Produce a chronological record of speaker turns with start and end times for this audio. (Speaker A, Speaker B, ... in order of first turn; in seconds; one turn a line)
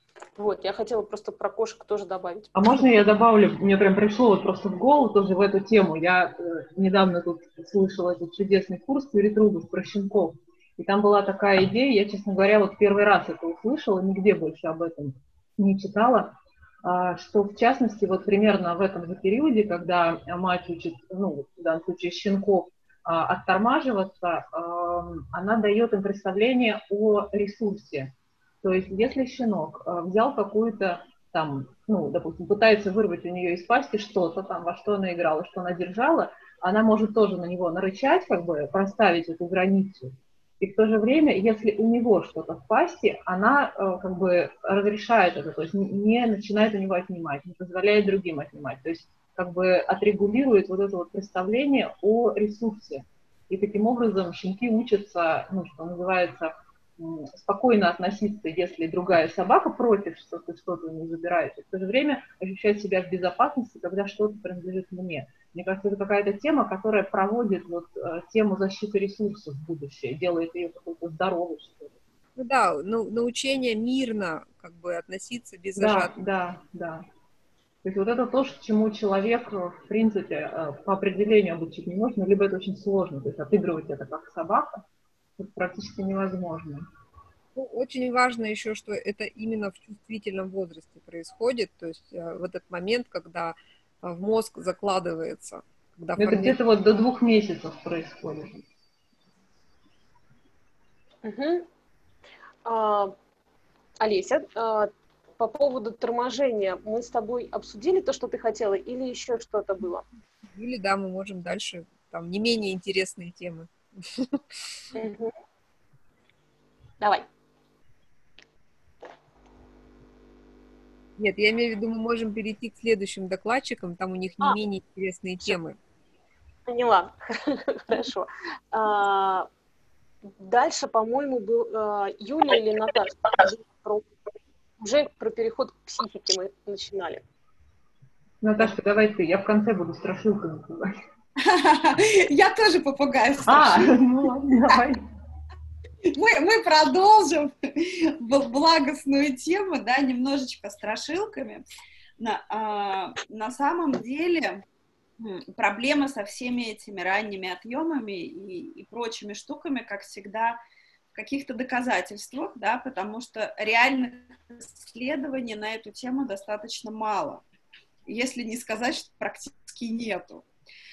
Speaker A: 0.4-2.6
Speaker B: 2.5-72.0
Speaker C: 72.4-76.1
Speaker B: 75.8-77.0
Speaker B: 77.8-84.8
Speaker B: 85.4-86.9
Speaker C: 87.5-96.6
Speaker B: 96.2-98.6
Speaker A: 101.2-101.7
Speaker A: 102.7-103.1
Speaker A: 104.0-110.1
Speaker C: 110.5-114.8
Speaker A: 115.0-115.3
Speaker C: 121.2-125.8
Speaker A: 126.7-129.5
Speaker A: 130.4-134.1
Speaker A: 134.8-137.2
Speaker B: 138.4-140.9
Speaker D: 141.4-144.0
Speaker B: 143.5-145.0
Speaker D: 146.1-151.7
Speaker D: 152.2-154.6
Speaker D: 155.2-160.6
Speaker D: 161.1-167.4
Speaker D: 168.1-170.5